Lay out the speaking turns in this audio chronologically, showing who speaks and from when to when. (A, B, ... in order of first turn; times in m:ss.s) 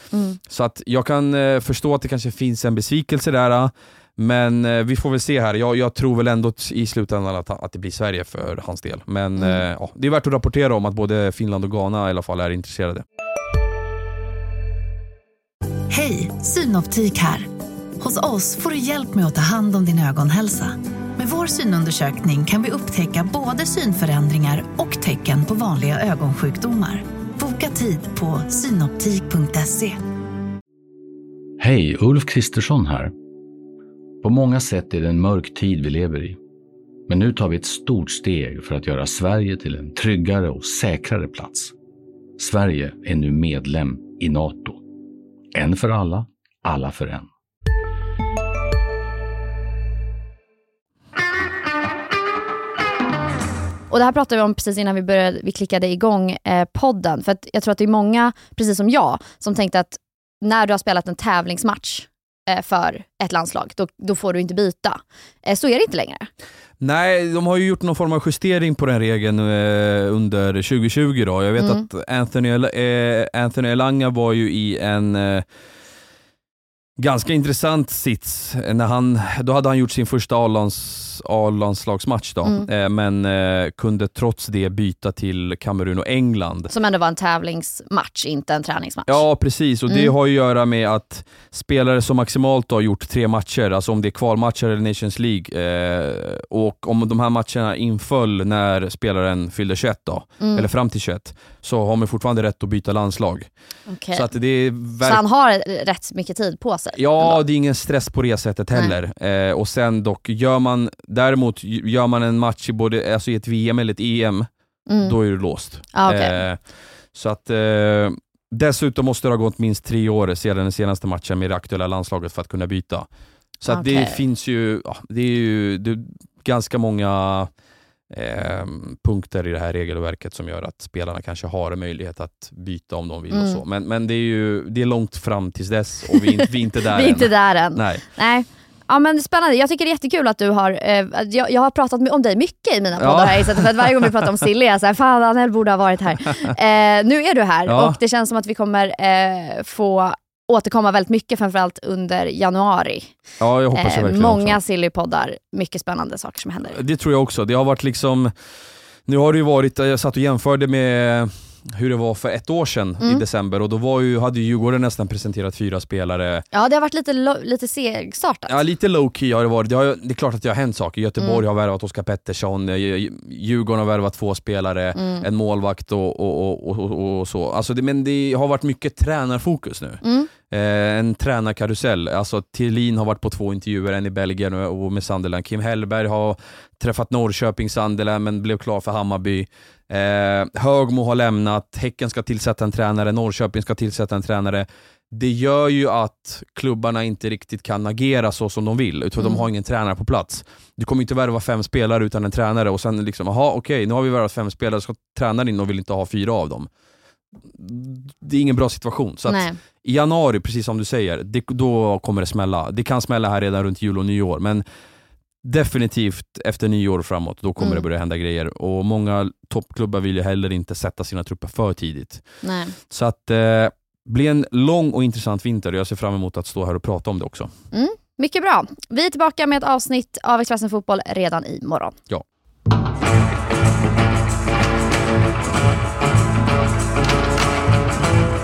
0:00.1-0:00.4 A
0:00.5-0:13.0 B
0:15.9-0:17.4 C
0:18.0-0:30.0 C
0:31.6-0:33.1 D
0:34.2-0:36.4 D
0:37.1-0:41.7 D
0:42.4-0:44.8 D
0:45.5-0:47.3 D
0:53.9-1:06.3 A
1:06.8-1:15.4 B
1:11.6-1:11.8 A
1:17.0-1:26.7 B
1:26.7-1:29.2 A
1:29.1-1:43.5 B
1:29.9-1:30.1 A
1:40.4-1:40.7 A
1:43.9-1:44.3 A
1:44.1-1:45.2 B
1:45.0-1:47.4 A
1:46.9-1:54.4 B
1:54.9-1:55.2 A
1:55.0-1:56.6 B
1:55.9-1:56.4 A
1:57.1-2:03.1 B
2:03.6-2:07.5 B
2:03.7-2:04.2 A
2:08.1-2:18.1 B
2:13.3-2:13.6 A
2:16.9-2:33.1 A
2:23.0-2:24.1 B
2:27.7-2:28.0 B
2:33.4-2:34.6 B
2:33.7-2:36.8 A
2:36.7-2:38.3 B
2:39.1-2:46.4 B
2:46.5-2:48.6 A
2:48.5-3:26.7 B
2:51.2-2:51.4 A
2:55.0-2:55.3 A
3:00.0-3:00.3 A
3:19.2-3:19.5 A
3:27.5-3:34.6 B
3:29.3-3:29.6 A
3:35.4-3:42.2 B
3:37.6-3:37.8 A
3:42.4-3:42.8 A
3:42.9-3:47.5 B
3:47.7-3:52.0 A